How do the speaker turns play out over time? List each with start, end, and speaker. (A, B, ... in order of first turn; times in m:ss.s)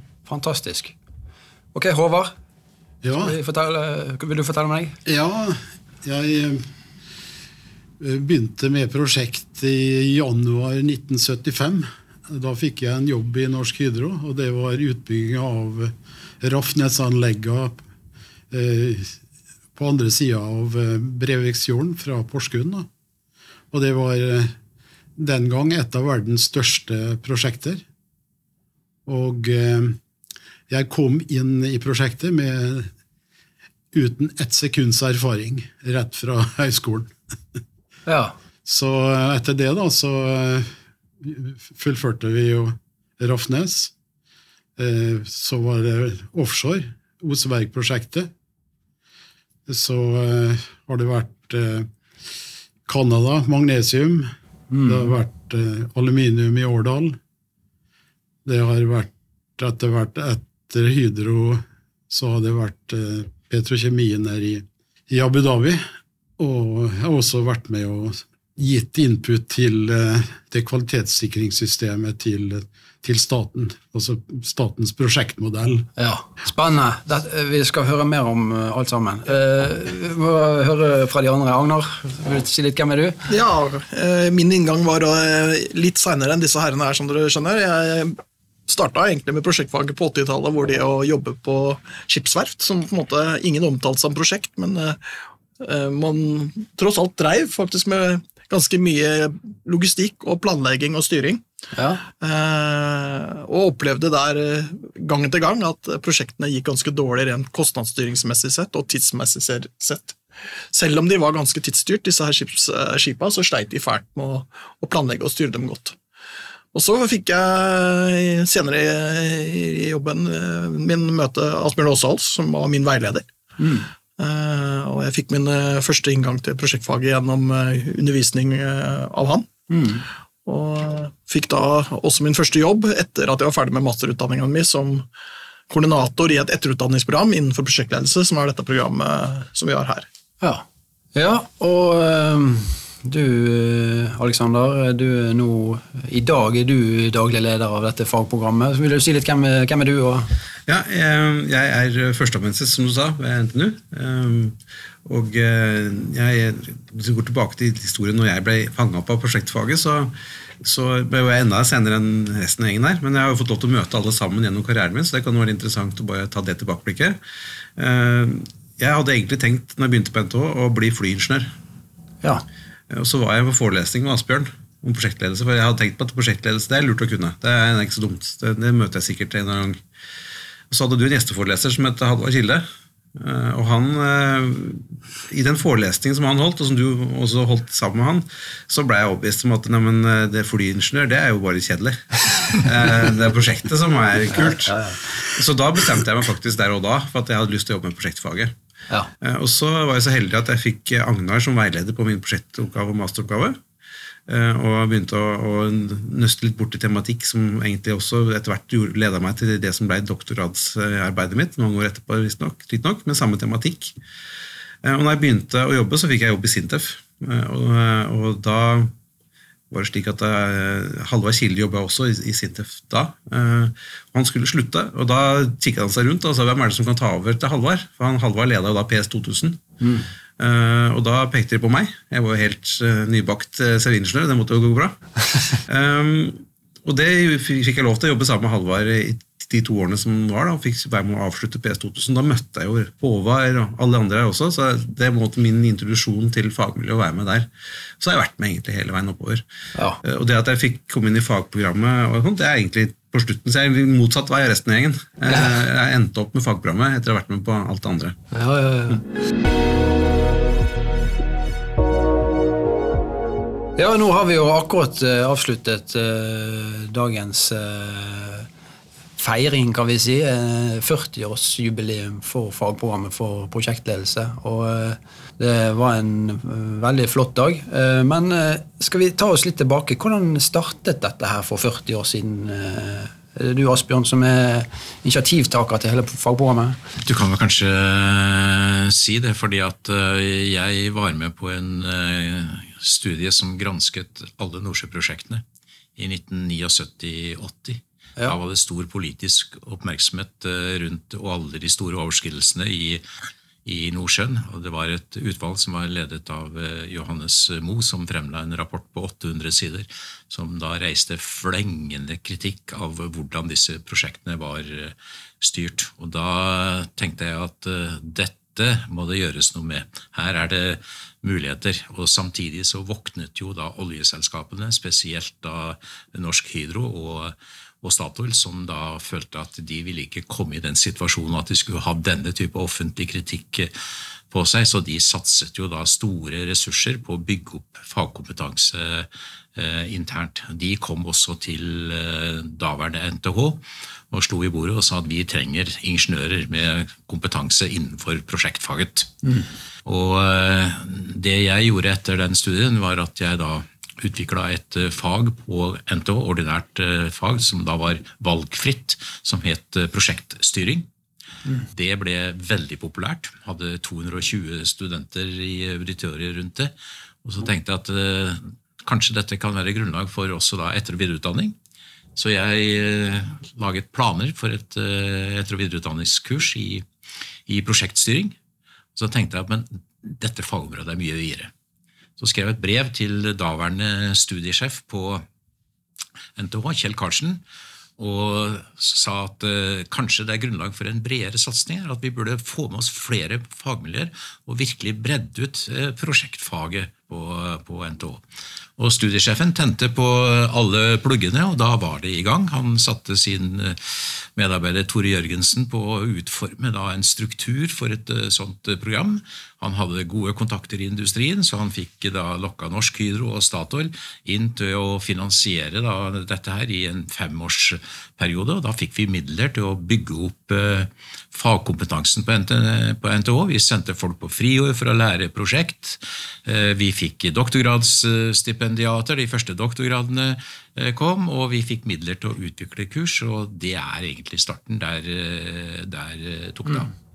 0:00.2-0:00.9 A
0:01.7-0:02.3 A
0:03.0-0:03.3 B
0:03.2-0:05.0 A
0:05.0-0:06.6 B
0:08.0-0:17.8 B
0:18.5-0:19.1 B
0:19.8-0:22.9 B
0:23.7-0:24.5 B
0:25.2-0:27.8 B
0:29.0-0:30.0 B
0:30.7-0:32.9 B
0:33.9-0:37.1 B
0:38.0-0:38.3 A
0:38.6-0:43.9 B
0:44.8-0:48.3 B
0:49.7-0:51.9 B
0:52.8-0:54.3 B
0:54.7-0:55.1 A
0:54.8-0:57.2 B
0:58.4-1:05.8 B
1:06.4-1:15.9 B
1:16.0-1:23.2 A
1:23.3-1:28.2 C
1:28.7-1:35.0 C
1:35.6-1:41.4 C
1:41.7-1:42.0 A
1:42.2-1:50.2 C
1:50.7-1:56.0 C
1:56.7-2:03.3 C
2:03.6-2:03.8 A
2:04.2-2:09.5 C
2:09.7-2:10.0 A
2:10.4-2:15.1 C
2:15.7-2:20.0 C
2:20.4-2:30.3 A
2:30.7-2:47.2 D
2:47.8-2:51.5 D
2:52.9-2:59.8 D
3:00.7-3:18.5 D
3:14.3-3:15.0 A
3:19.2-3:23.6 D
3:24.3-3:33.9 D
3:34.8-3:38.9 D
3:39.7-3:49.6 D
3:50.4-3:55.0 D
3:55.5-4:09.4 D
4:09.7-4:10.0 A
4:10.0-4:18.2 D
4:18.3-4:19.0 A
4:23.8-4:28.5 A
4:29.2-4:46.8 A
4:47.0-4:55.4 E
4:56.0-5:03.0 E
5:03.6-5:33.7 E
5:34.3-5:49.2 E
5:49.8-6:00.9 E
6:01.7-6:06.7 E
6:07.2-6:11.5 E
6:12.1-6:16.8 E
6:17.5-6:18.4 E
6:19.0-6:21.5 E
6:22.2-6:25.2 E
6:26.4-6:27.4 E
6:28.0-6:38.2 E
6:38.8-7:16.9 E